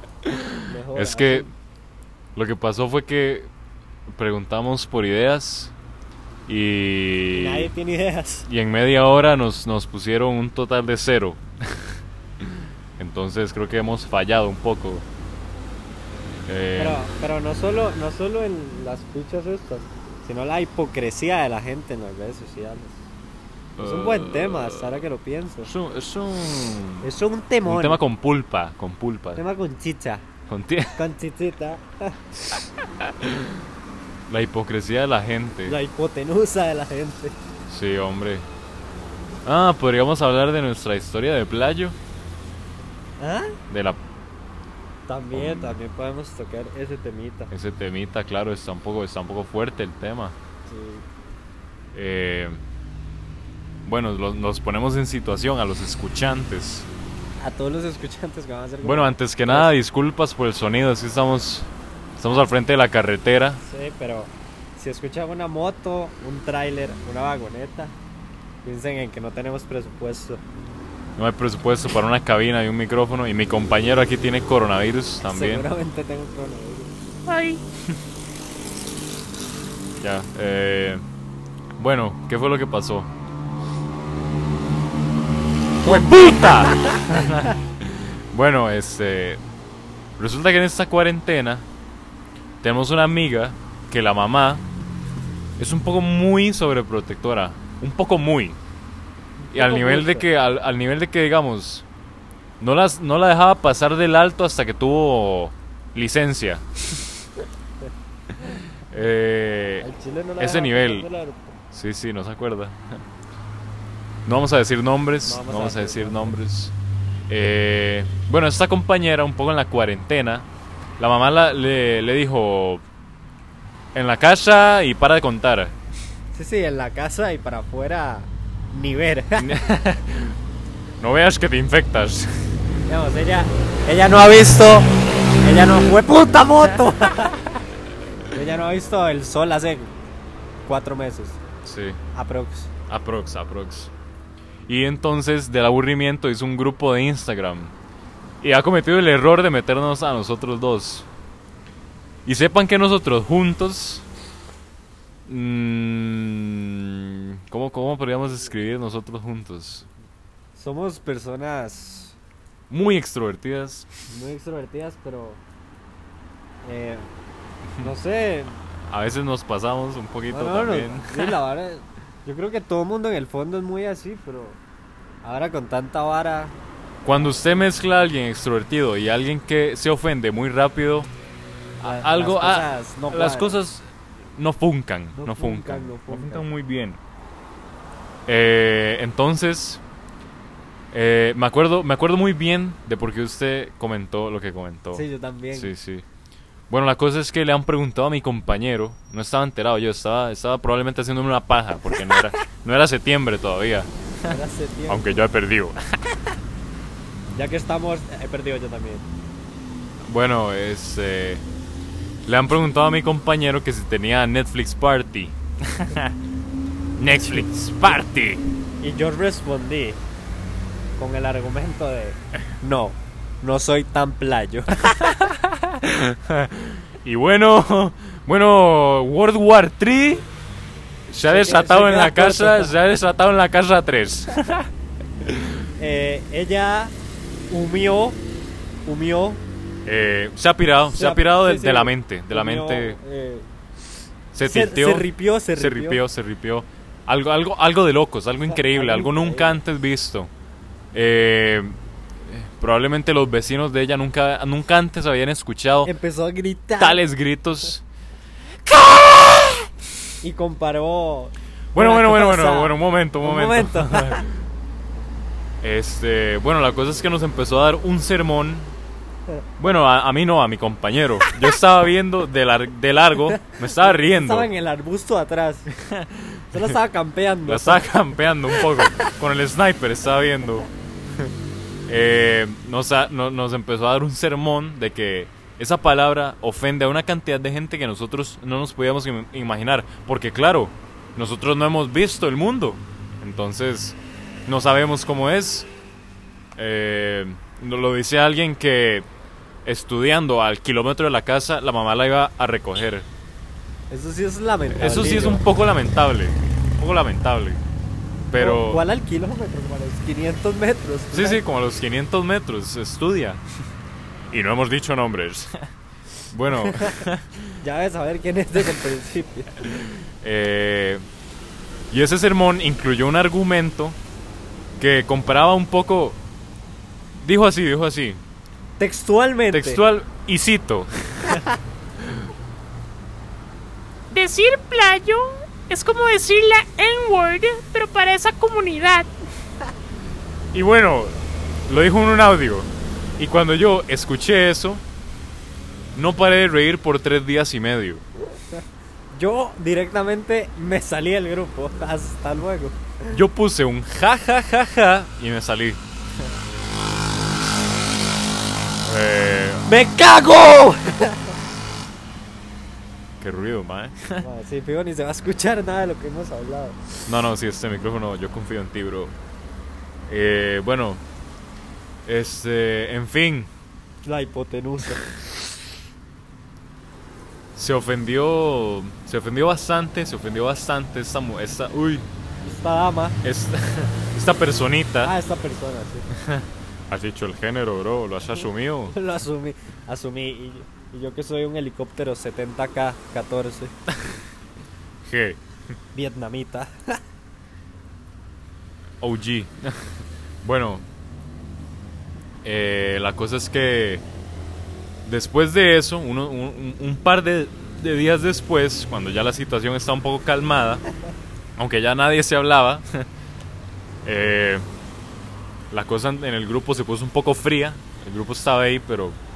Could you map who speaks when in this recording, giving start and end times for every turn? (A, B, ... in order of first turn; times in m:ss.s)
0:00.3-0:01.5 A
0:00.6-0:01.5 B
0:02.4-0:03.5 A
0:04.1-0:05.7 A
0:06.5-0:07.7 A
0:07.3-0:08.5 B
0:08.5-0:12.5 A
0:13.0-0:15.0 A
0:16.5-0:17.0 A
0:16.8-0:23.1 B
0:23.8-0:25.0 A
0:23.8-0:25.7 B
0:25.6-0:27.1 A
0:27.0-0:28.0 B
0:27.6-0:29.4 A
0:29.4-0:30.2 B
0:30.5-0:31.0 A
0:31.0-0:32.2 B
0:32.5-0:33.6 A
0:34.3-0:35.8 A
0:35.7-0:37.4 B
0:37.7-0:38.5 A
0:39.4-0:42.0 A
0:43.2-0:43.6 B
0:43.7-0:44.0 A
0:45.1-0:47.5 B
0:45.3-0:45.8 A
0:47.5-0:50.4 A
0:50.7-0:51.1 B
0:51.9-0:52.6 A
0:53.8-0:56.9 A
0:57.4-0:59.7 B
0:58.8-1:03.6 A
1:03.6-1:08.0 B
1:08.6-1:10.4 B
1:11.2-1:15.7 A
1:15.3-1:17.0 B
1:17.3-1:17.6 C
1:20.0-1:21.0 A
1:21.8-1:23.1 A
1:25.8-1:27.5 B
1:25.8-1:29.4 A
1:30.2-1:31.7 A
1:32.6-1:34.7 A
1:35.6-1:38.6 A
1:39.4-1:40.3 B
1:39.5-1:41.9 A
1:42.6-1:46.7 A
1:48.9-1:51.1 A
1:49.8-1:51.6 B
1:51.7-1:53.0 A
1:54.3-1:56.7 A
1:55.2-1:56.4 B
1:57.3-2:00.5 A
2:01.0-2:02.8 A
2:03.9-2:05.8 A
2:06.3-2:09.6 B
2:09.4-2:10.4 A
2:11.0-2:12.5 A
2:12.9-2:14.9 B
2:15.4-2:17.4 B
2:18.3-2:19.9 B
2:20.7-2:21.4 B
2:21.6-2:22.0 A
2:22.1-2:22.7 B
2:22.9-2:23.9 A
2:24.7-2:27.7 A
2:28.4-2:31.1 A
2:32.3-2:34.0 A
2:35.3-2:39.9 A
2:40.6-2:42.2 B
2:42.7-2:43.9 A
2:44.1-2:45.4 B
2:46.6-2:47.1 B
2:47.8-2:48.6 B
2:48.9-2:51.4 A
2:50.3-2:54.6 B
2:55.2-2:56.6 B
2:57.0-3:01.1 A
2:57.1-2:57.5 B
3:01.8-3:07.0 A
3:01.8-3:03.6 B
3:05.2-3:06.5 B
3:08.3-3:09.8 A
3:10.9-3:16.0 A
3:14.9-3:15.7 B
3:16.7-3:26.2 A
3:24.3-3:25.2 B
3:27.3-3:29.1 B
3:30.0-3:31.4 A
3:32.2-3:36.1 A
3:37.0-3:38.5 A
3:37.1-3:38.0 B
3:38.8-3:40.0 B
3:41.0-3:45.2 B
3:45.0-3:50.2 A
3:51.1-3:54.7 A
3:51.2-3:52.7 B
3:55.8-3:57.0 B
3:57.5-3:58.2 B
3:58.8-3:59.4 B
3:59.8-4:03.0 A
4:00.9-4:03.5 B
4:04.3-4:10.3 A
4:04.4-4:06.0 B
4:08.5-4:09.6 B
4:10.9-4:15.9 A
4:15.8-4:17.0 B
4:16.8-4:17.8 A
4:18.7-4:19.6 A
4:20.2-4:24.2 B
4:21.7-4:24.3 A
4:25.6-4:28.8 A
4:29.6-4:34.5 A
4:33.3-4:35.7 B
4:35.8-4:36.5 A
4:36.5-4:37.9 B
4:37.5-4:40.7 A
4:38.5-4:38.9 B
4:41.9-4:55.7 A
4:56.6-4:59.1 A
4:59.6-5:03.1 A
5:03.9-5:05.4 B
5:04.7-5:07.6 A
5:08.3-5:08.8 A
5:08.4-5:11.4 B
5:11.1-5:13.4 A
5:14.3-5:15.7 A
5:16.3-5:17.5 A
5:16.5-5:17.1 B
5:17.6-5:19.5 B
5:19.7-5:21.0 A
5:21.9-5:24.0 A
5:24.8-5:26.2 A
5:27.2-5:28.2 A
5:28.8-5:29.8 B
5:29.5-5:31.5 A
5:31.3-5:31.6 B
5:34.1-5:39.1 C
5:40.5-5:44.8 A
5:46.0-5:48.0 A
5:48.5-5:53.2 B
5:53.1-5:55.8 A
5:58.8-5:59.7 A
5:59.7-6:01.4 B
6:03.2-6:04.2 A
6:04.2-6:06.8 B
6:07.1-6:09.2 A
6:10.1-6:11.0 A
6:12.1-6:13.5 A
6:14.0-6:15.0 B
6:17.6-6:22.1 A
6:22.4-6:23.2 B
6:23.2-6:25.1 A
6:25.0-6:26.1 B
6:26.2-6:29.0 A
6:28.4-6:33.8 B
6:35.0-6:35.4 A
6:35.9-6:37.0 B
6:39.0-6:40.8 A
6:42.4-6:44.0 A
6:45.0-6:50.8 A
6:51.6-6:53.1 A
6:54.0-6:54.6 A
6:55.7-6:59.2 A